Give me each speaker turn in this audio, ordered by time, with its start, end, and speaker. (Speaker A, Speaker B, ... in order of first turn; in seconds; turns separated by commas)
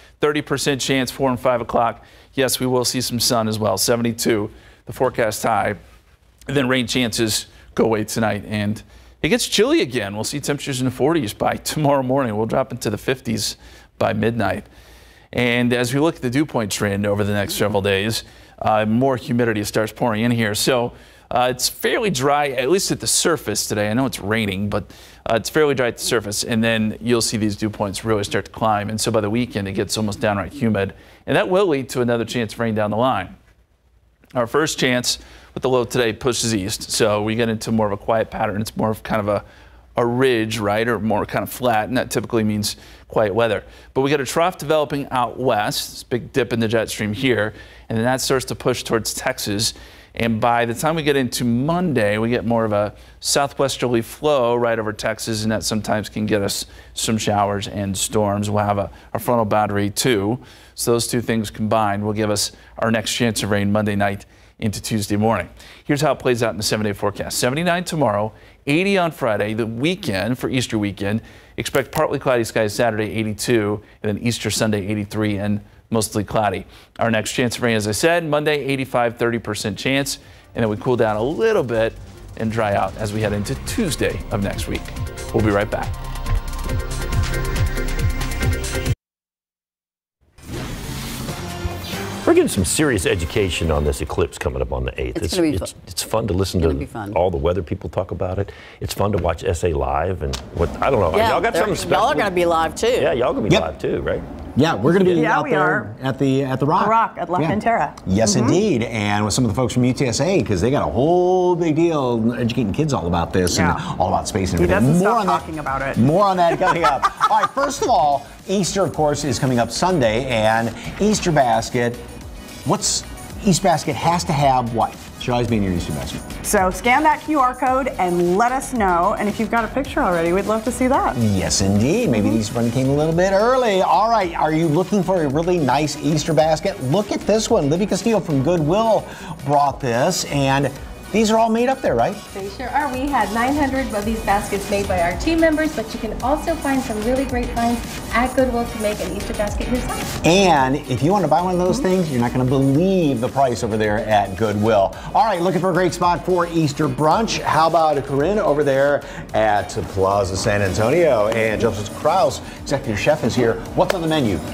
Speaker A: 0.2-5.8, Speaker A: 6.5-14.7, Speaker A: 15.3-33.3, Speaker A: 34.3-39.4, Speaker A: 40.0-85.9, Speaker B: 92.2-102.3, Speaker C: 95.2-95.7, Speaker C: 96.6-97.2, Speaker C: 101.1-103.1, Speaker B: 103.0-104.2, Speaker D: 104.5-122.0, Speaker E: 104.9-105.9, Speaker E: 106.8-108.6, Speaker E: 113.5-113.8, Speaker E: 114.5-116.0, Speaker E: 116.6-117.2, Speaker D: 122.6-126.3, Speaker E: 126.4-131.2, Speaker D: 131.2-142.2, Speaker F: 142.3-150.1, Speaker D: 150.2-164.4